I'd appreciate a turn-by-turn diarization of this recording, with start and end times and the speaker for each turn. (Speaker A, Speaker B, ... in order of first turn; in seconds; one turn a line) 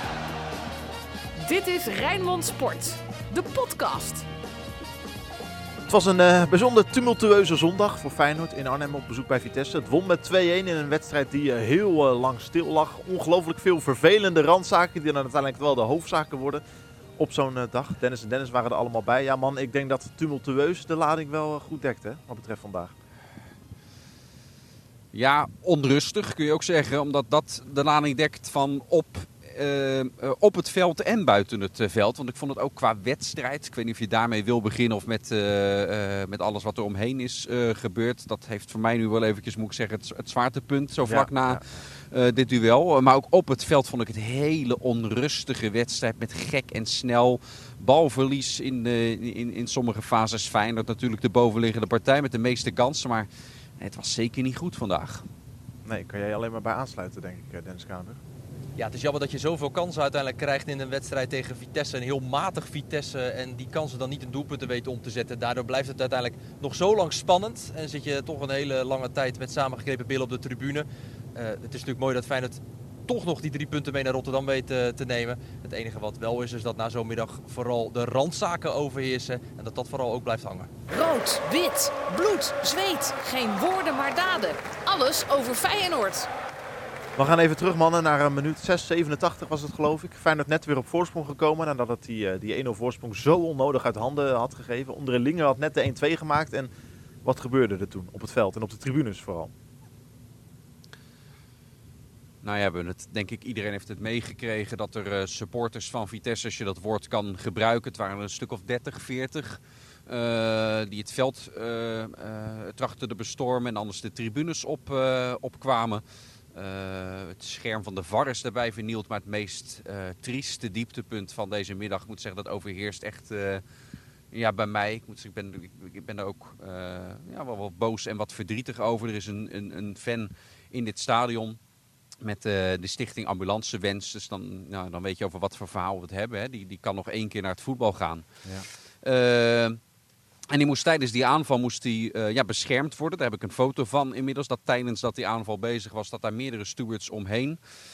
Speaker A: 1.4-4.2
Speaker B: 5.9-16.6
Speaker B: 17.2-22.9
Speaker C: 25.1-53.3
Speaker B: 41.1-41.6
Speaker C: 53.8-55.2
Speaker B: 55.9-58.2
Speaker D: 58.8-80.7
Speaker A: 80.9-86.3
Speaker B: 87.2-96.7
Speaker B: 97.2-99.5
Speaker C: 102.4-116.0
Speaker C: 116.5-123.6
Speaker C: 124.3-131.6
Speaker C: 132.2-138.3
Speaker C: 139.0-139.8
Speaker C: 140.5-147.6